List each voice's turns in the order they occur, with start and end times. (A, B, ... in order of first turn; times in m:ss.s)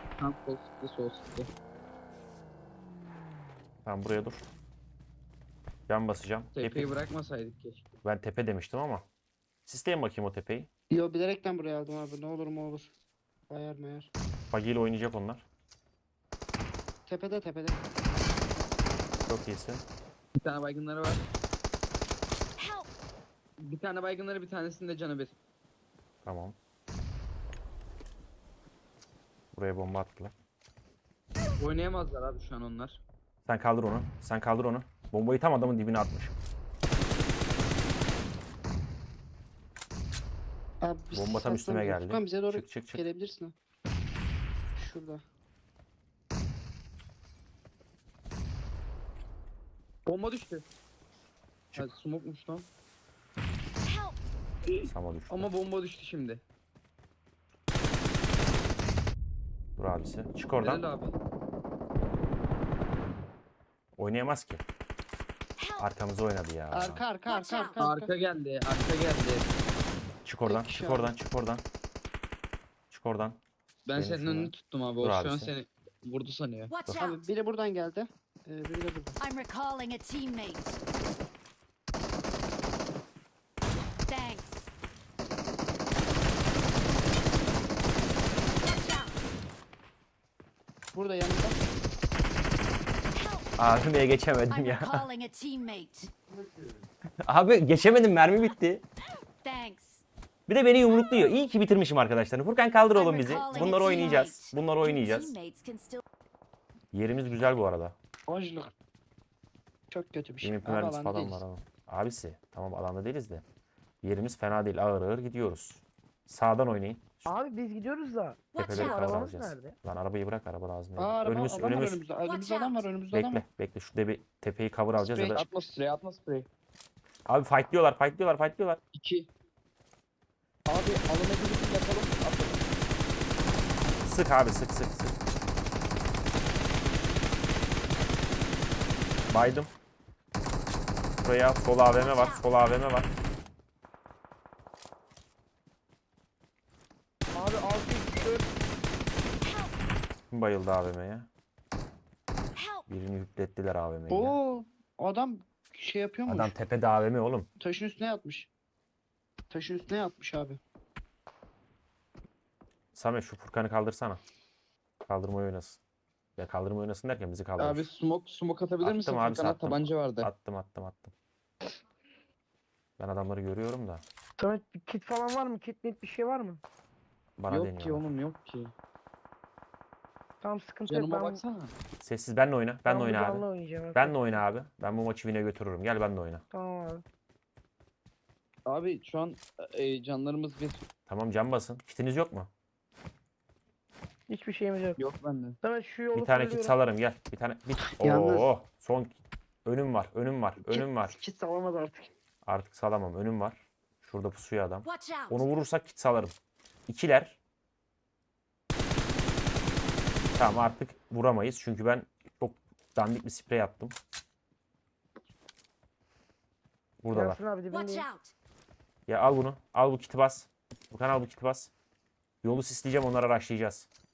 0:00.2-0:01.5 A
0:03.8-0:04.5 B
0:05.9-0:06.9 B
0:06.5-0:07.9 A
0:08.0-0:09.1 B
0:09.6-0:10.7 B
0:10.9-0:12.9 C
0:13.5-0:14.1 C
0:14.5-0:15.4 B
0:17.0-0:17.8 C
0:19.3-0:19.8 B
0:20.3-0:21.2 A
0:23.6-0:25.3 A
0:26.2-0:26.6 B
0:29.5-0:30.3 B
0:31.6-0:33.0 A
0:33.5-0:36.4 B
0:40.8-0:43.5 C
0:41.1-0:43.0 B
0:44.7-0:45.2 C
0:50.1-0:50.6 A
0:51.7-0:52.7 A
0:54.6-0:56.4 A
0:54.8-0:55.5 B
0:59.8-1:00.8 B
1:00.6-1:01.1 A
1:04.0-1:04.6 B
1:05.6-1:05.8 D
1:05.8-1:07.0 B
1:06.7-1:08.1 C
1:07.2-1:07.8 D
1:07.8-1:09.5 A
1:10.2-1:11.6 B
1:10.4-1:11.1 C
1:12.9-1:13.4 B
1:13.8-1:16.7 A
1:13.9-1:15.5 B
1:16.7-1:17.2 D
1:17.0-1:19.2 C
1:19.2-1:20.8 D
1:24.0-1:24.7 D
1:28.6-1:29.2 D
1:30.9-1:31.6 C
1:33.1-1:33.5 D
1:33.6-1:35.0 B
1:34.5-1:36.1 D
1:37.2-1:38.8 B
1:39.4-1:40.0 D
1:40.5-1:45.4 B
1:40.9-1:41.3 D
1:42.9-1:46.0 D
1:46.9-1:48.0 B
1:48.3-1:48.7 C
1:49.9-1:51.4 C
1:50.4-1:53.4 B
1:54.0-1:57.3 B
1:57.2-1:59.8 E
1:58.5-1:59.3 D
1:58.6-2:02.0 B
2:01.0-2:03.4 C
2:02.2-2:02.9 D
2:03.1-2:05.4 B
2:05.0-2:05.5 C
2:05.3-2:06.5 A
2:07.3-2:08.8 B
2:08.9-2:09.3 A
2:10.7-2:12.6 C
2:14.0-2:15.1 B
2:19.3-2:19.7 B
2:21.2-2:23.1 B
2:21.9-2:22.5 D
2:27.3-2:28.5 E
2:30.3-2:31.3 B
2:32.6-2:32.8 D
2:32.9-2:34.4 B
2:34.1-2:36.5 C
2:36.3-2:37.5 B
2:37.6-2:38.5 C
2:39.5-2:40.6 C
2:42.9-2:44.2 B
2:45.1-2:45.8 B
2:46.4-2:47.8 B
2:47.6-2:50.3 A
2:48.8-2:51.1 B
2:53.0-2:54.0 B
2:54.4-2:56.6 E
2:57.4-2:58.0 B
2:57.5-2:58.7 A
3:00.4-3:01.4 E
3:00.9-3:01.7 A
3:02.0-3:06.4 B
3:02.8-3:04.2 E
3:06.5-3:07.0 E
3:08.6-3:10.8 A
3:11.1-3:12.5 B
3:14.3-3:15.0 E
3:15.0-3:15.6 A
3:15.6-3:16.8 E
3:16.1-3:21.2 B
3:18.0-3:18.5 C
3:20.6-3:22.1 C
3:22.4-3:26.3 B
3:24.8-3:25.4 D
3:26.9-3:27.4 B
3:30.3-3:34.0 B
3:37.0-3:37.4 B
3:37.1-3:38.0 E
3:37.7-3:38.3 D
3:39.1-3:41.7 B
3:42.4-3:43.9 B